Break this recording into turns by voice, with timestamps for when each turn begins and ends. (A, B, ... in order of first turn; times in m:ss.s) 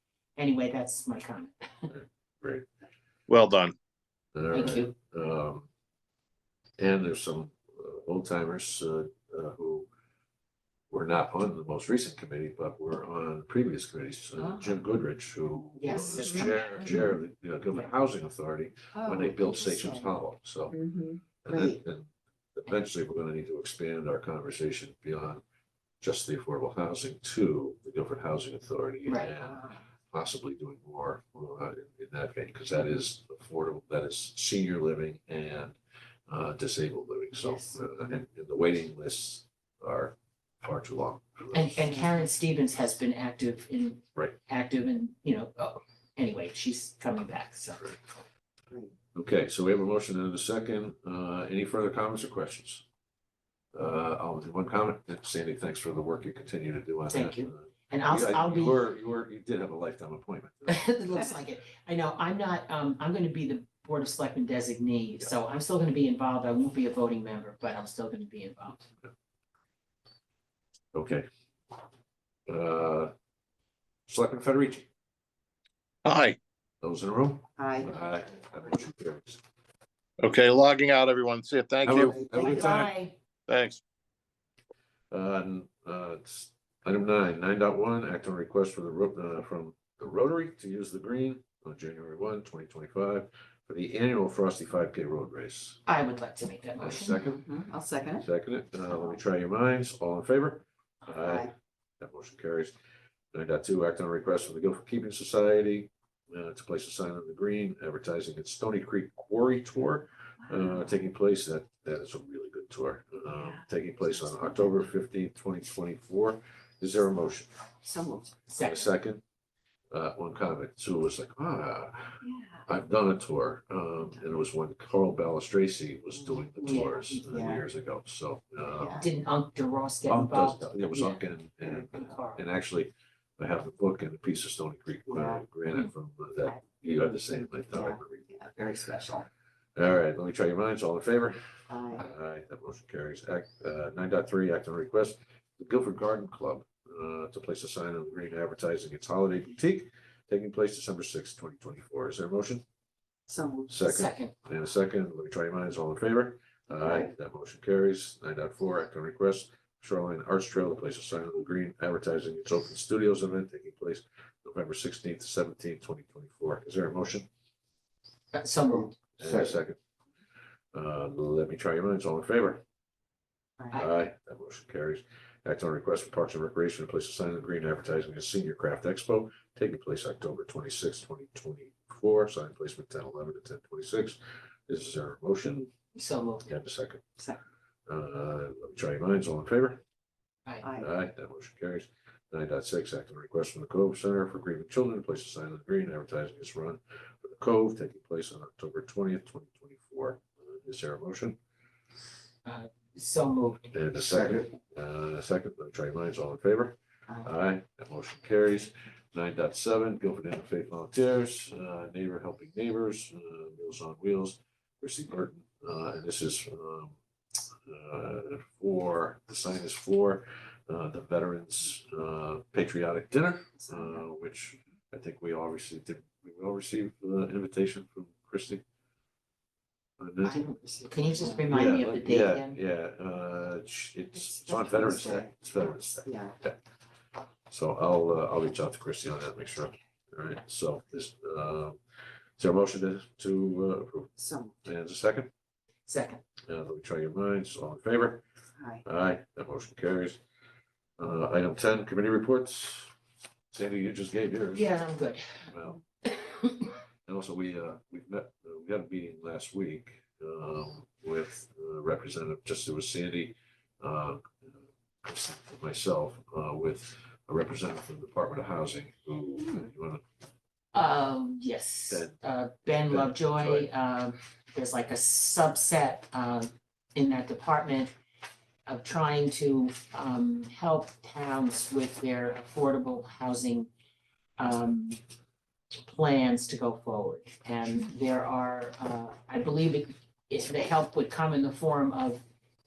0:00.4-0:01.9 A
0:01.9-0:02.7 B
0:03.3-0:03.8 C
0:04.4-0:05.7 B
0:04.5-0:04.9 A
0:06.8-0:09.9 B
0:10.9-0:20.8 B
0:14.4-0:14.7 D
0:15.8-0:16.8 A
0:15.9-0:16.5 D
0:18.9-0:20.1 D
0:21.4-0:25.4 B
0:21.5-0:21.8 D
0:26.0-0:35.8 B
0:29.0-0:29.3 A
0:29.3-0:29.8 D
0:36.3-0:42.0 B
0:41.5-0:48.0 A
0:49.1-0:52.8 B
0:53.7-1:00.9 B
0:57.1-0:58.8 A
1:00.7-1:08.9 A
1:10.9-1:11.3 B
1:12.5-1:13.1 B
1:14.1-1:14.9 B
1:16.0-1:16.4 C
1:16.8-1:19.4 B
1:17.6-1:17.9 D
1:20.2-1:22.2 C
1:21.8-1:22.9 B
1:22.1-1:22.8 D
1:22.3-1:23.2 A
1:23.5-1:23.8 C
1:25.1-1:35.8 B
1:35.9-1:37.2 A
1:36.8-1:37.4 B
1:37.1-1:38.2 D
1:38.2-1:42.7 B
1:41.1-1:41.5 D
1:43.3-1:57.5 B
1:54.4-1:54.7 D
1:57.8-1:58.4 D
1:58.5-1:58.9 A
1:58.5-1:59.2 B
1:59.9-2:09.0 B
2:06.2-2:07.6 D
2:06.6-2:07.3 A
2:08.7-2:09.1 D
2:08.9-2:12.5 A
2:10.1-2:18.3 B
2:15.1-2:15.4 D
2:17.7-2:19.2 D
2:19.8-2:32.6 B
2:21.7-2:22.1 D
2:33.3-2:33.9 D
2:33.7-2:47.3 B
2:33.8-2:34.3 A
2:36.8-2:37.1 D
2:48.3-2:49.0 A
2:49.2-2:49.8 B
2:50.7-2:52.6 B
2:53.7-3:05.7 B
3:06.0-3:06.5 A
3:06.5-3:07.0 B
3:07.9-3:09.8 B
3:10.6-3:10.9 D
3:10.8-3:21.4 B
3:22.4-3:23.7 A
3:23.7-3:37.0 B
3:37.7-3:48.6 B
3:43.6-3:44.0 D
3:50.0-3:50.4 B
3:50.3-3:51.7 D
3:50.3-3:52.6 A
3:51.5-3:56.6 B
3:54.2-3:56.4 D
3:57.5-4:01.8 B
4:02.4-4:05.3 B
4:04.2-4:04.6 D
4:05.9-4:06.2 A
4:06.5-4:08.2 B
4:08.6-4:08.8 D
4:08.8-4:10.2 B
4:11.0-4:12.9 B
4:13.5-4:14.8 B
4:14.6-4:15.5 A
4:15.5-4:15.8 B
4:16.0-4:16.7 A
4:17.1-4:30.0 B
4:29.4-4:29.7 D
4:30.7-4:37.9 A
4:31.9-4:32.2 B
4:32.9-4:33.7 B
4:38.7-4:43.7 A
4:44.4-4:45.0 A
4:45.8-4:52.2 A